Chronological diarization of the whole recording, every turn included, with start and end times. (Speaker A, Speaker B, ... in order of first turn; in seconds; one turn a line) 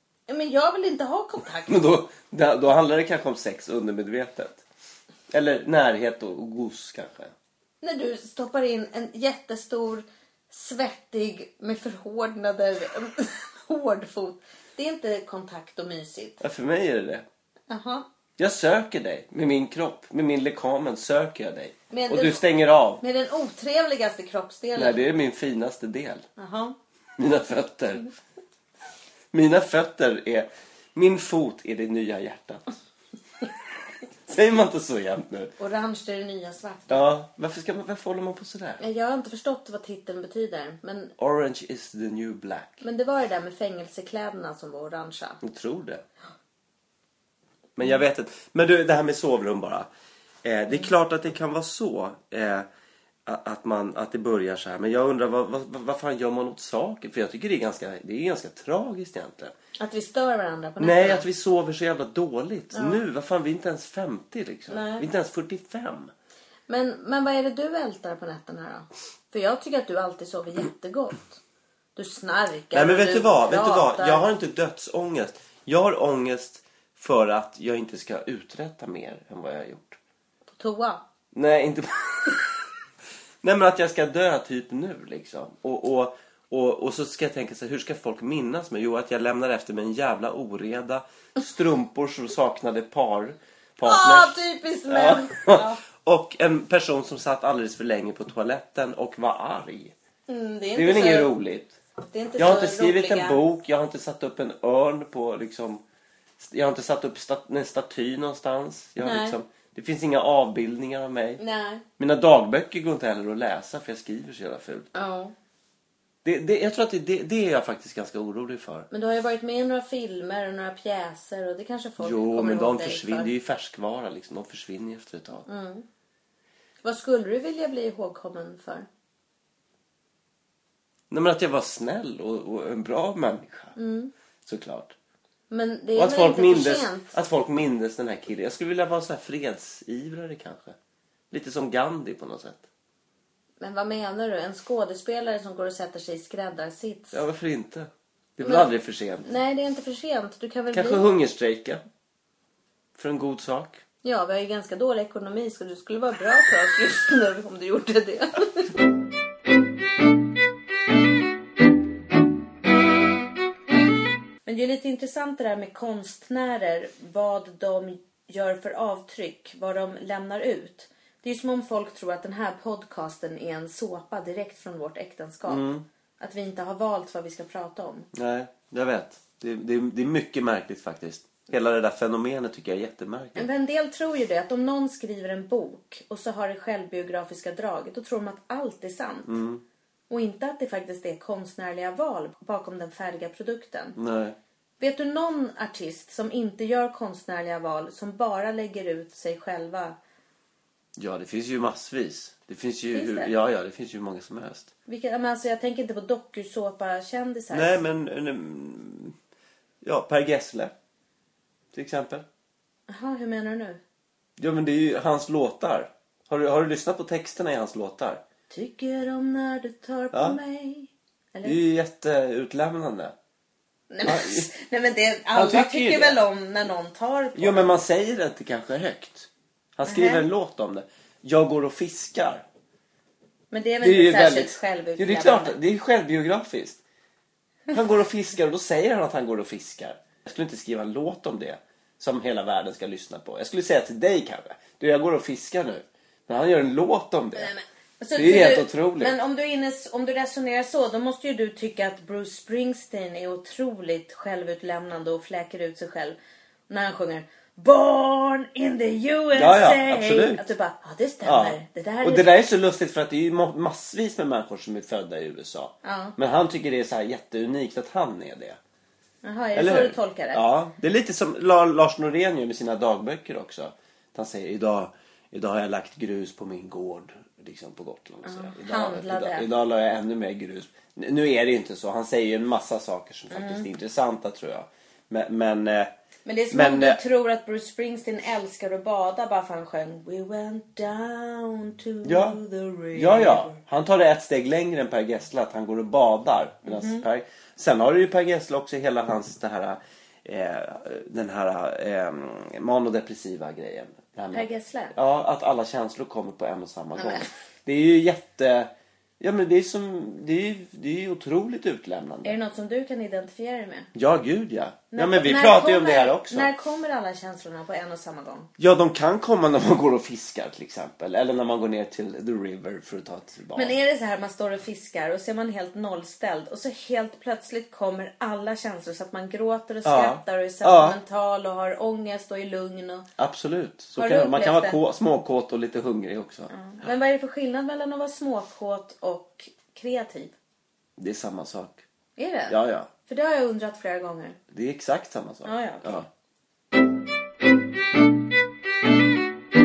Speaker A: 0.3-1.9
Speaker B: 1.7-4.6
Speaker B: 5.3-7.3
Speaker A: 7.8-16.4
Speaker B: 16.4-17.2
Speaker A: 17.7-18.1
Speaker B: 18.4-23.0
Speaker A: 21.9-22.4
Speaker A: 23.0-25.1
Speaker B: 24.8-26.2
Speaker A: 26.4-26.8
Speaker B: 27.2-28.1
Speaker B: 29.3-32.7
Speaker B: 34.3-35.5
Speaker A: 35.6-37.1
Speaker B: 36.9-38.8
Speaker A: 38.8-41.1
Speaker B: 41.2-42.8
Speaker A: 42.8-45.4
Speaker B: 45.4-46.0
Speaker B: 47.8-49.9
Speaker B: 50.4-52.7
Speaker B: 53.3-59.5
Speaker A: 59.8-61.2
Speaker B: 60.8-66.1
Speaker A: 62.7-63.0
Speaker A: 64.7-65.1
Speaker A: 66.7-71.4
Speaker A: 72.0-74.2
Speaker B: 72.7-80.0
Speaker A: 80.5-81.0
Speaker B: 81.3-82.6
Speaker B: 83.4-99.9
Speaker A: 93.8-95.8
Speaker A: 100.3-101.3
Speaker B: 100.8-101.8
Speaker A: 102.1-103.4
Speaker B: 102.4-105.8
Speaker B: 106.4-111.4
Speaker A: 109.0-109.4
Speaker A: 111.4-111.8
Speaker B: 112.0-114.9
Speaker A: 114.9-115.3
Speaker B: 116.2-118.9
Speaker A: 118.9-123.3
Speaker B: 122.0-125.5
Speaker A: 125.5-125.8
Speaker A: 126.8-128.9
Speaker B: 131.1-133.8
Speaker A: 133.8-134.1
Speaker B: 134.4-134.9
Speaker A: 135.5-137.1
Speaker B: 136.0-140.8
Speaker B: 141.3-142.7
Speaker A: 143.6-147.2
Speaker B: 147.1-149.3
Speaker A: 148.4-148.7
Speaker A: 149.2-151.1
Speaker B: 150.7-151.8
Speaker B: 152.9-153.8
Speaker A: 154.0-158.7
Speaker A: 164.5-175.7
Speaker B: 175.5-175.8
Speaker A: 176.2-178.1
Speaker B: 178.1-183.5
Speaker A: 183.3-189.3
Speaker B: 189.3-189.6
Speaker A: 190.1-194.0
Speaker B: 194.0-194.4
Speaker A: 194.8-200.0
Speaker B: 201.0-204.7
Speaker A: 202.9-203.3
Speaker A: 204.9-207.8
Speaker B: 207.5-209.2
Speaker B: 209.8-210.7
Speaker B: 211.7-212.2
Speaker A: 212.9-213.8
Speaker B: 214.4-218.2
Speaker A: 218.5-221.6
Speaker B: 220.1-220.4
Speaker B: 221.4-223.2
Speaker A: 223.9-227.8
Speaker B: 224.1-224.5
Speaker B: 225.3-226.2
Speaker B: 227.4-232.4
Speaker A: 229.8-230.3
Speaker A: 233.5-235.6
Speaker B: 233.8-236.8
Speaker B: 237.7-247.5
Speaker A: 247.4-256.2
Speaker B: 248.2-249.2
Speaker A: 256.7-262.3
Speaker B: 259.3-260.5
Speaker B: 261.2-268.6
Speaker A: 265.8-266.1
Speaker A: 269.2-270.4
Speaker B: 269.6-285.9
Speaker A: 278.2-279.5
Speaker A: 283.3-283.7
Speaker A: 286.3-293.6
Speaker B: 286.5-287.0
Speaker B: 292.1-292.4
Speaker B: 292.9-312.4
Speaker A: 296.6-297.1
Speaker A: 304.3-304.9
Speaker A: 307.0-307.3
Speaker A: 312.2-313.9
Speaker B: 313.9-316.5
Speaker A: 314.9-318.5
Speaker B: 318.6-323.7
Speaker A: 323.6-333.1
Speaker B: 329.9-331.0
Speaker B: 333.2-336.5
Speaker A: 334.0-334.8
Speaker A: 336.5-340.3
Speaker B: 341.0-341.8
Speaker A: 342.2-344.4
Speaker B: 342.5-342.9
Speaker B: 344.5-346.1
Speaker A: 345.4-346.0